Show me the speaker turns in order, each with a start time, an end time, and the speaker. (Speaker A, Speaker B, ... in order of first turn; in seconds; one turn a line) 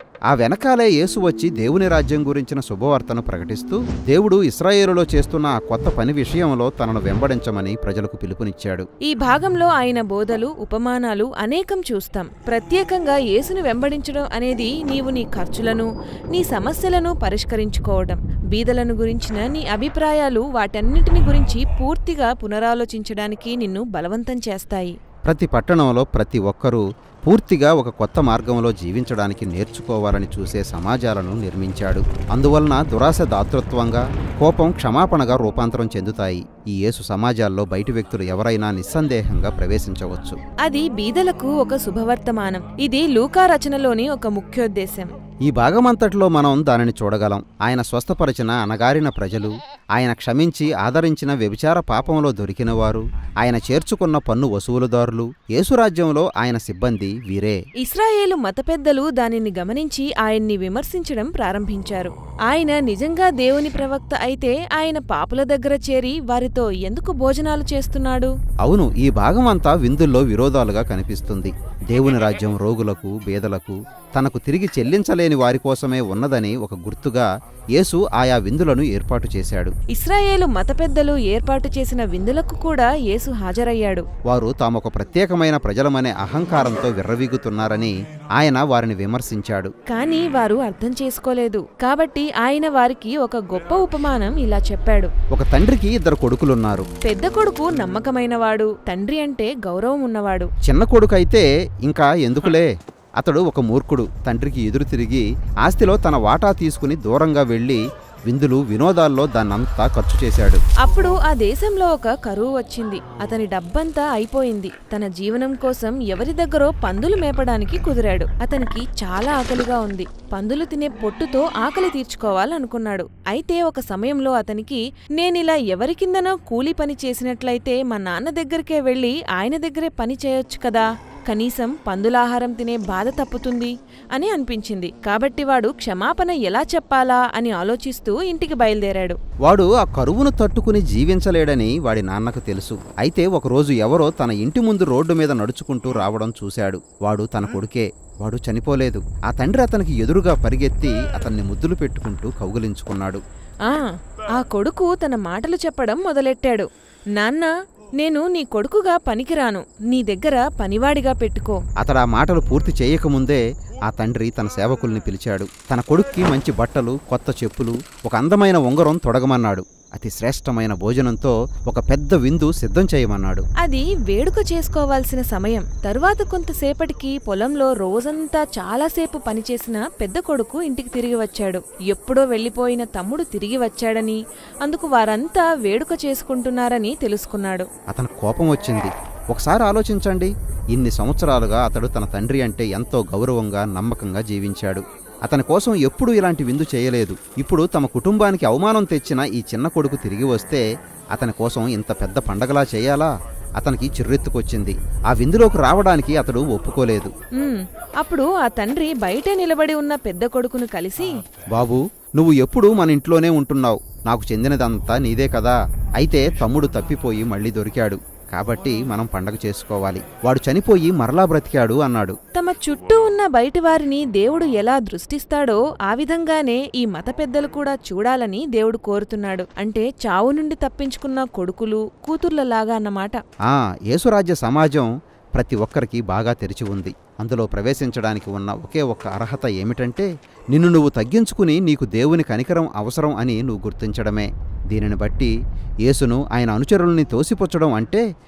Speaker A: 0.3-8.9
Speaker B: 9.1-25.0
Speaker A: 25.3-40.4
Speaker B: 40.6-45.1
Speaker A: 45.5-57.6
Speaker B: 57.8-68.3
Speaker A: 68.6-79.8
Speaker B: 79.9-84.1
Speaker A: 84.3-89.7
Speaker B: 89.9-95.1
Speaker A: 95.3-96.9
Speaker B: 97.0-100.5
Speaker A: 100.7-110.6
Speaker B: 110.8-139.2
Speaker A: 139.4-153.2
Speaker B: 153.7-161.6
Speaker A: 161.8-173.4
Speaker B: 173.6-187.7
Speaker A: 187.9-207.1
Speaker B: 207.4-211.2
Speaker A: 211.6-222.2
Speaker B: 222.3-233.2
Speaker A: 233.5-245.3
Speaker A: 245.8-248.0